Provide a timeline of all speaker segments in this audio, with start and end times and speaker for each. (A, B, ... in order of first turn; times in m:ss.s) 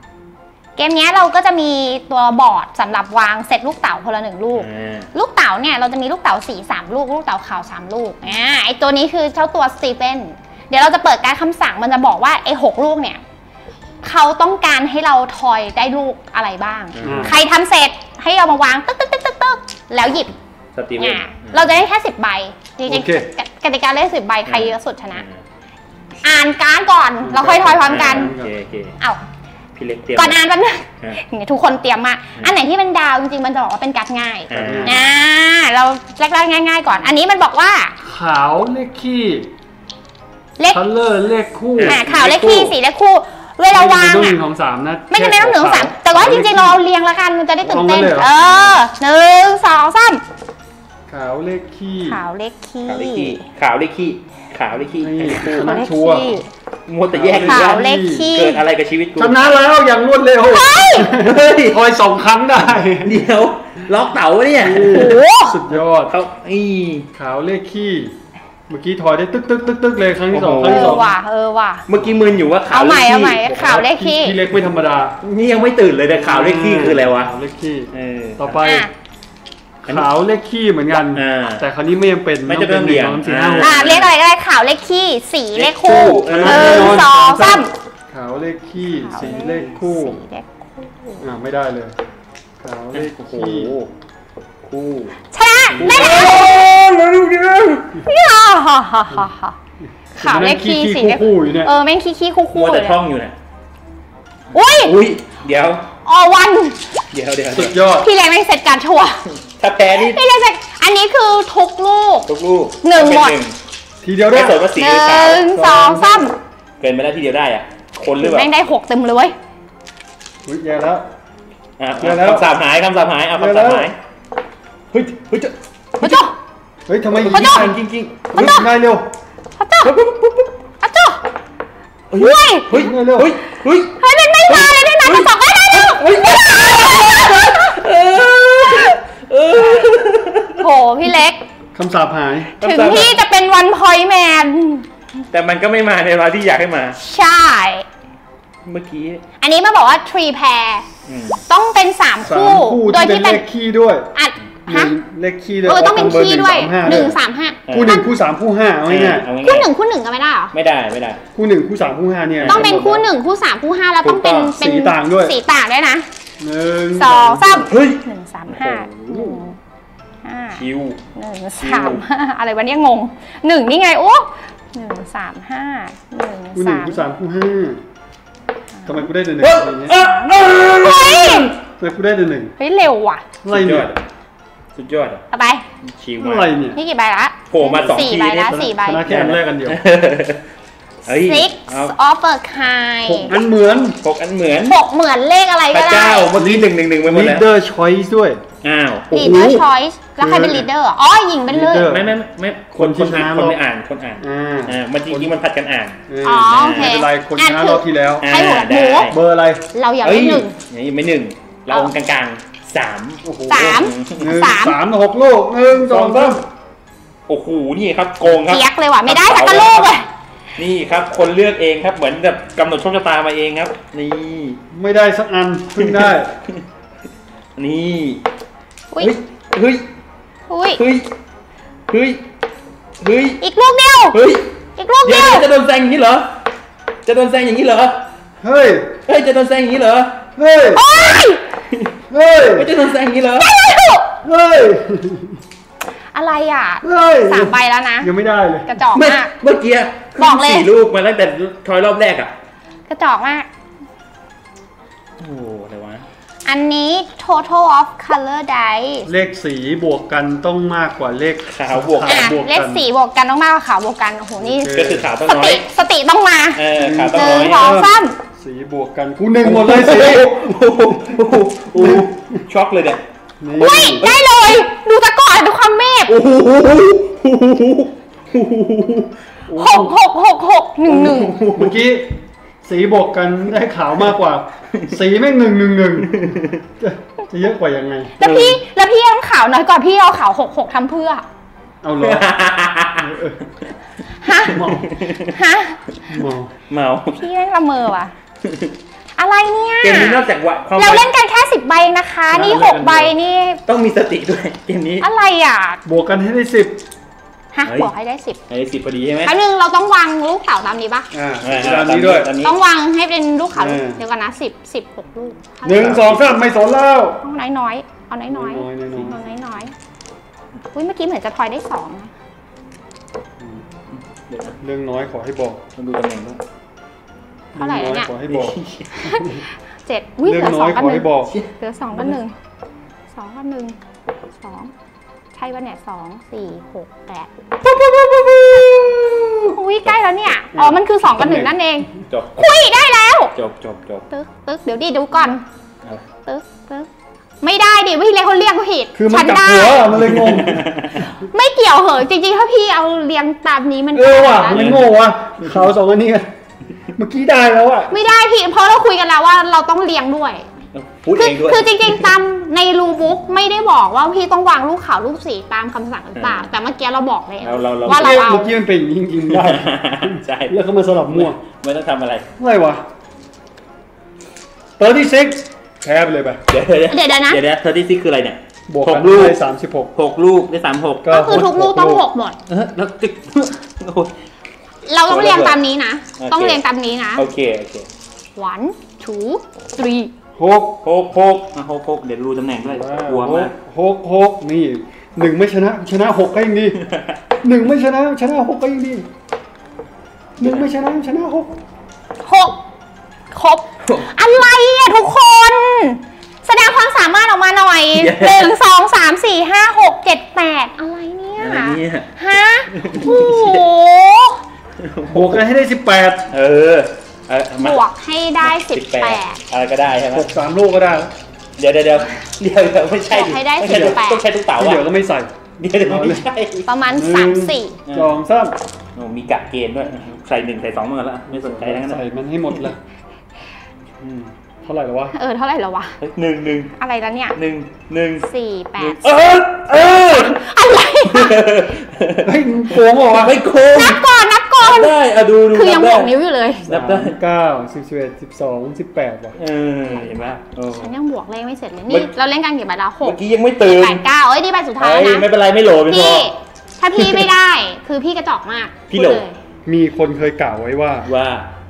0:00.8-0:13.2 A
0:04.6-0:05.1 B
0:14.0-0:20.3 A
0:17.0-0:17.4 B
0:17.0-0:17.4 C
0:20.8-0:21.7 B
0:21.0-0:25.2 A
0:22.9-0:23.3 C
0:24.5-0:25.4 B
0:26.2-0:28.4 A
0:27.2-0:28.5 C
0:27.7-0:28.9 B
0:29.8-0:30.4 B
0:30.2-0:38.0 A
0:34.5-0:35.0 B
0:34.5-0:35.0 C
0:38.0-0:39.5 C
0:40.7-0:42.8 C
0:41.8-0:42.0 B
0:41.8-0:44.4 A
0:43.7-0:46.8 C
0:45.1-0:50.2 A
0:47.6-0:48.3 C
0:48.4-0:48.7 B
0:51.1-0:52.2 C
0:52.0-0:53.4 A
0:52.9-0:55.7 B
0:55.0-0:56.3 C
0:55.5-0:56.5 A
0:56.9-0:59.4 B
0:57.1-0:58.3 C
0:57.5-0:58.6 A
0:59.2-1:03.2 C
1:00.4-1:01.1 A
1:01.1-1:01.8 B
1:03.0-1:05.2 B
1:04.6-1:06.1 C
1:04.9-1:05.6 A
1:05.7-1:07.1 B
1:07.1-1:08.2 C
1:08.7-1:11.1 C
1:10.3-1:11.1 B
1:10.6-1:11.9 A
1:11.9-1:13.8 B
1:12.7-1:14.4 A
1:13.5-1:15.2 C
1:15.2-1:17.3 B
1:16.2-1:18.9 C
1:17.9-1:18.6 B
1:18.6-1:18.9 A
1:19.8-1:20.1 B
1:19.8-1:23.9 C
1:21.1-1:21.6 B
1:22.4-1:24.1 B
1:23.6-1:27.7 A
1:25.6-1:27.1 B
1:25.8-1:30.2 C
1:28.8-1:31.3 A
1:31.2-1:32.0 C
1:32.6-1:33.8 C
1:32.9-1:33.9 B
1:34.6-1:35.1 B
1:35.3-1:36.6 A
1:35.7-1:38.0 B
1:35.8-1:36.3 C
1:38.0-1:39.6 A
1:40.1-1:43.0 A
1:40.2-1:41.7 C
1:42.5-1:43.4 B
1:44.5-1:45.0 A
1:44.7-1:45.8 B
1:46.0-1:46.9 A
1:47.1-1:47.8 B
1:47.5-1:48.1 C
1:47.9-1:49.2 A
1:49.6-1:50.2 B
1:49.9-1:52.3 A
1:52.3-1:53.6 B
1:52.8-1:53.4 A
1:54.0-1:54.7 C
1:54.3-1:55.6 B
1:54.8-1:56.4 A
1:55.5-1:56.3 C
1:56.8-1:58.5 B
1:58.2-1:59.4 A
2:00.4-2:01.1 C
2:01.8-2:04.0 B
2:02.0-2:02.5 C
2:03.4-2:03.9 C
2:04.9-2:06.2 B
2:06.0-2:06.4 A
2:06.9-2:07.8 C
2:07.1-2:08.7 B
2:07.3-2:07.7 A
2:08.3-2:08.7 A
2:08.3-2:09.1 C
2:09.6-2:09.9 A
2:09.8-2:10.5 B
2:10.8-2:11.2 A
2:12.1-2:14.0 B
2:12.2-2:12.8 A
2:12.7-2:13.3 C
2:14.0-2:17.7 A
2:14.5-2:20.6 B
2:20.6-2:21.4 A
2:21.8-2:22.5 C
2:22.6-2:23.2 B
2:22.6-2:24.9 A
2:25.3-2:27.0 B
2:27.0-2:27.9 A
2:28.6-2:29.2 B
2:29.4-2:30.9 A
2:31.1-2:31.4 B
2:31.4-2:33.4 A
2:32.2-2:34.1 C
2:34.1-2:34.9 A
2:34.7-2:37.2 C
2:35.6-2:38.1 A
2:36.8-2:37.1 B
2:37.7-2:38.0 B
2:37.7-2:39.3 C
2:38.9-2:39.7 B
2:39.4-2:40.5 A
2:40.5-2:41.2 B
2:41.4-2:43.1 C
2:42.4-2:42.7 B
2:42.5-2:46.1 A
2:44.0-2:44.5 B
2:44.5-2:45.4 C
2:46.4-2:47.7 C
2:46.9-2:49.6 A
2:47.6-2:49.4 B
2:50.2-2:50.6 A
2:50.5-2:51.0 B
2:51.2-2:57.0 A
2:51.6-2:52.0 B
2:56.6-2:57.8 C
2:58.8-2:59.1 A
2:58.9-3:00.0 C
2:59.4-3:01.5 B
2:59.9-3:01.5 A
3:01.8-3:02.5 C
3:02.6-3:03.2 A
3:03.4-3:03.9 C
3:03.5-3:04.0 B
3:04.8-3:05.2 B
3:05.3-3:05.6 A
3:05.8-3:06.6 B
3:06.2-3:06.8 C
3:06.7-3:09.2 A
3:07.5-3:10.4 B
3:07.7-3:09.8 C
3:11.1-3:11.9 B
3:11.1-3:13.4 A
3:13.1-3:14.0 C
3:14.0-3:14.8 B
3:14.7-3:16.3 A
3:15.7-3:17.5 B
3:16.3-3:18.4 C
3:18.6-3:19.6 B
3:19.1-3:21.9 A
3:19.3-3:19.6 C
3:20.2-3:20.7 C
3:21.5-3:22.1 C
3:21.8-3:26.0 B
3:22.8-3:23.6 C
3:24.2-3:25.4 C
3:26.1-3:28.3 C
3:26.2-3:29.2 A
3:26.5-3:27.0 B
3:28.2-3:29.2 B
3:29.1-3:29.6 C
3:29.7-3:30.6 A
3:30.0-3:34.4 B
3:33.2-3:36.4 C
3:33.5-3:34.8 A
3:35.7-3:36.4 B
3:37.3-3:40.0 B
3:38.5-3:40.1 A
3:40.6-3:44.6 B
3:44.7-3:46.3 C
3:45.8-3:46.2 B
3:47.6-3:48.2 B
3:49.0-3:49.8 B
3:50.5-3:50.8 A
3:50.8-3:51.1 B
3:51.9-3:52.2 B
3:53.0-3:53.4 B
3:53.4-3:54.2 A
3:54.1-3:54.5 B
3:54.8-3:55.5 A
3:55.0-3:56.3 B
3:57.1-3:58.0 B
3:58.4-3:59.0 C
3:59.1-4:00.2 B
4:00.4-4:00.8 C
4:00.7-4:01.5 A
4:02.1-4:02.7 C
4:02.4-4:03.5 B
4:03.4-4:04.1 A
4:04.2-4:05.4 C
4:06.1-4:08.1 A
4:06.8-4:08.7 C
4:08.6-4:09.3 A
4:08.9-4:12.3 B
4:10.2-4:10.7 A
4:12.9-4:13.5 A
4:15.2-4:16.1 B
4:16.4-4:19.1 A
4:19.1-4:22.8 C
4:21.5-4:22.3 B
4:22.1-4:28.2 A
4:24.4-4:25.1 C
4:24.7-4:25.7 B
4:26.6-4:27.8 B
4:26.8-4:30.5 C
4:29.4-4:33.0 B
4:31.8-4:32.1 C
4:33.4-4:34.1 C
4:33.6-4:36.2 A
4:33.6-4:34.4 B
4:36.1-4:39.1 B
4:39.5-4:39.9 C
4:39.5-4:41.4 A
4:40.9-4:42.0 B
4:41.5-4:46.3 C
4:46.0-4:46.6 B
4:46.8-4:48.6 C
4:48.2-4:51.2 A
4:51.8-4:52.3 C
4:52.0-4:53.2 B
4:53.0-4:53.4 C
4:54.2-4:54.6 A
4:54.4-4:54.9 C
4:54.5-4:55.3 B
4:55.3-4:56.0 A
4:56.1-4:56.5 C
4:56.7-4:57.2 B
4:57.2-4:58.1 A
4:59.2-5:00.2 A
4:59.8-5:01.1 B
5:00.8-5:03.6 A
5:02.3-5:03.1 B
5:03.7-5:05.0 B
5:05.0-5:05.8 A
5:05.8-5:06.8 C
5:07.5-5:08.4 A
5:07.6-5:07.9 B
5:08.5-5:09.3 B
5:09.2-5:11.1 A
5:11.1-5:12.3 C
5:11.4-5:12.6 B
5:12.4-5:16.0 A
5:13.5-5:14.0 C
5:15.6-5:16.4 B
5:15.6-5:17.2 C
5:17.2-5:19.7 A
5:18.3-5:19.2 C
5:20.7-5:22.1 A
5:23.4-5:23.6 C
5:24.3-5:24.6 B
5:24.6-5:25.6 C
5:25.8-5:26.4 B
5:27.6-5:28.1 A
5:27.6-5:28.6 C
5:28.3-5:29.2 B
5:28.9-5:32.3 A
5:30.2-5:31.3 C
5:33.1-5:33.8 A
5:34.4-5:34.7 A
5:35.3-5:37.3 A
5:37.6-5:40.3 B
5:39.5-5:43.3 A
5:40.5-5:40.8 C
5:41.1-5:41.5 B
5:42.1-5:42.6 B
5:43.4-5:44.0 B
5:44.1-5:45.4 A
5:46.3-5:46.9 A
5:47.4-5:50.0 A
5:49.0-5:50.7 C
5:50.0-5:51.0 B
5:51.1-5:54.7 A
5:53.9-5:56.3 C
5:54.5-5:55.5 B
5:56.9-5:58.0 C
5:57.9-6:00.5 A
6:00.7-6:02.2 B
6:01.2-6:08.6 A
6:06.2-6:06.5 B
6:07.4-6:08.2 B
6:07.9-6:11.4 C
6:09.3-6:10.6 B
6:11.1-6:12.2 B
6:12.4-6:12.8 C
6:14.8-6:16.4 C
6:16.5-6:19.4 B
6:16.9-6:17.4 A
6:18.7-6:19.9 C
6:20.0-6:21.5 B
6:21.0-6:22.1 C
6:21.1-6:22.4 A
6:22.5-6:24.1 B
6:24.9-6:27.3 A
6:25.1-6:25.6 B
6:26.2-6:26.6 B
6:27.2-6:27.9 B
6:28.4-6:30.1 A
6:30.4-6:30.8 C
6:30.8-6:33.5 B
6:32.6-6:36.8 C
6:36.9-6:37.1 B
6:37.4-6:39.1 C
6:40.4-6:40.7 B
6:40.4-6:41.6 C
6:42.2-6:42.6 A
6:43.3-6:54.4 A
6:47.9-6:48.6 B
6:51.4-6:52.1 B
6:52.7-6:53.7 B
6:54.8-6:55.4 B
6:55.1-6:56.3 C
6:56.3-6:57.8 B
6:57.6-6:59.4 A
6:58.4-7:00.3 B
7:00.1-7:01.1 C
7:01.6-7:04.9 B
7:03.1-7:04.2 A
7:03.6-7:04.0 C
7:04.6-7:06.3 C
7:05.6-7:06.7 B
7:06.7-7:07.8 A
7:06.9-7:08.6 C
7:07.9-7:08.2 B
7:09.0-7:12.0 B
7:11.3-7:12.8 C
7:14.0-7:15.2 C
7:15.1-7:16.0 A
7:16.0-7:16.7 B
7:16.7-7:17.4 A
7:17.4-7:18.3 B
7:18.2-7:19.2 A
7:18.8-7:20.5 B
7:19.7-7:21.5 A
7:21.1-7:24.1 B
7:22.2-7:23.4 C
7:23.7-7:25.0 A
7:24.6-7:26.1 B
7:25.5-7:26.7 A
7:26.6-7:29.4 C
7:26.7-7:27.2 B
7:29.3-7:31.0 B
7:29.9-7:35.3 A
7:33.0-7:34.0 B
7:34.8-7:36.3 B
7:35.9-7:39.4 A
7:37.0-7:37.3 B
7:38.9-7:39.2 B
7:39.7-7:41.1 C
7:41.0-7:41.5 B